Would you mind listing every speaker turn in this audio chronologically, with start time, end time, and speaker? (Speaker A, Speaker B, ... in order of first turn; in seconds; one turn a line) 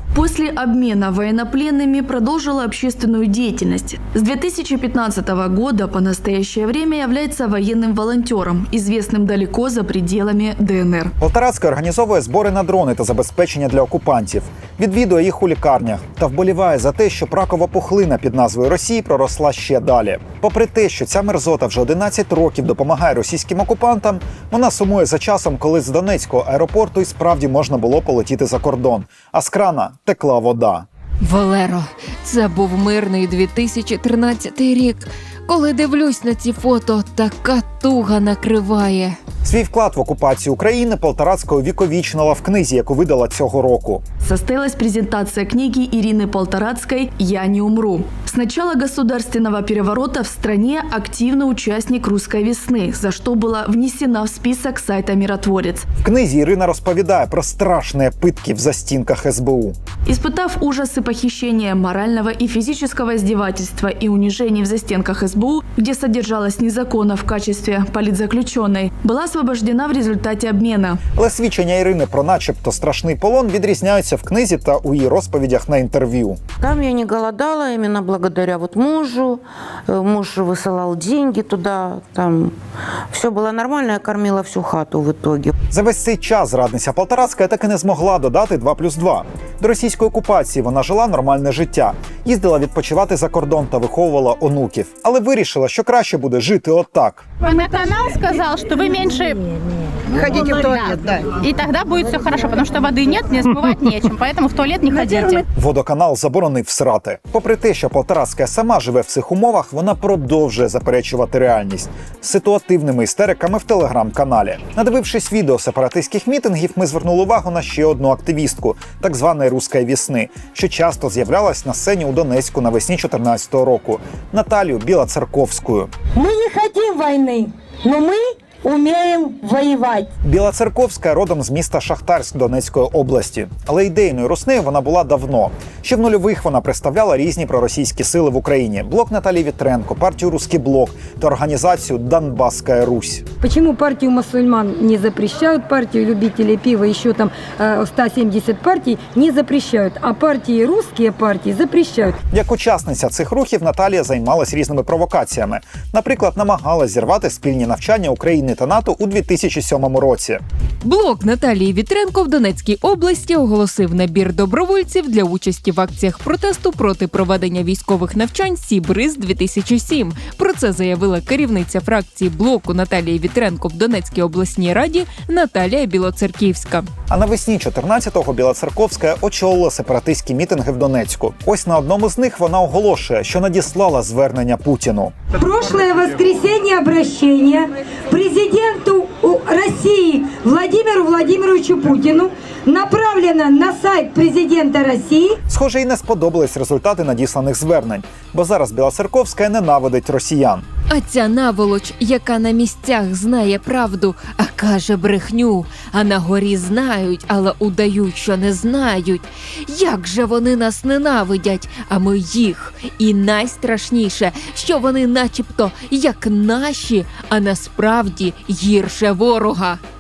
Speaker A: 0.1-11.1
Speaker B: 11.2-30.9
Speaker C: 31.2-39.2
Speaker B: 39.4-44.0
Speaker A: 44.2-55.9
Speaker B: 56.0-59.8
Speaker A: 60.1-71.0
Speaker B: 71.2-76.4
Speaker D: 76.6-82.6
Speaker D: 83.1-85.5
Speaker B: 85.7-97.3
Speaker E: 97.5-99.4
Speaker E: 101.5-105.1
Speaker B: 105.5-125.9
Speaker F: 126.2-130.1
Speaker B: 130.2-143.2
Speaker G: 143.4-152.2
Speaker B: 152.3-160.4
Speaker C: 160.8-176.9
Speaker B: 177.1-185.2
Speaker G: 185.3-195.4
Speaker B: 195.5-200.7
Speaker C: 200.9-219.8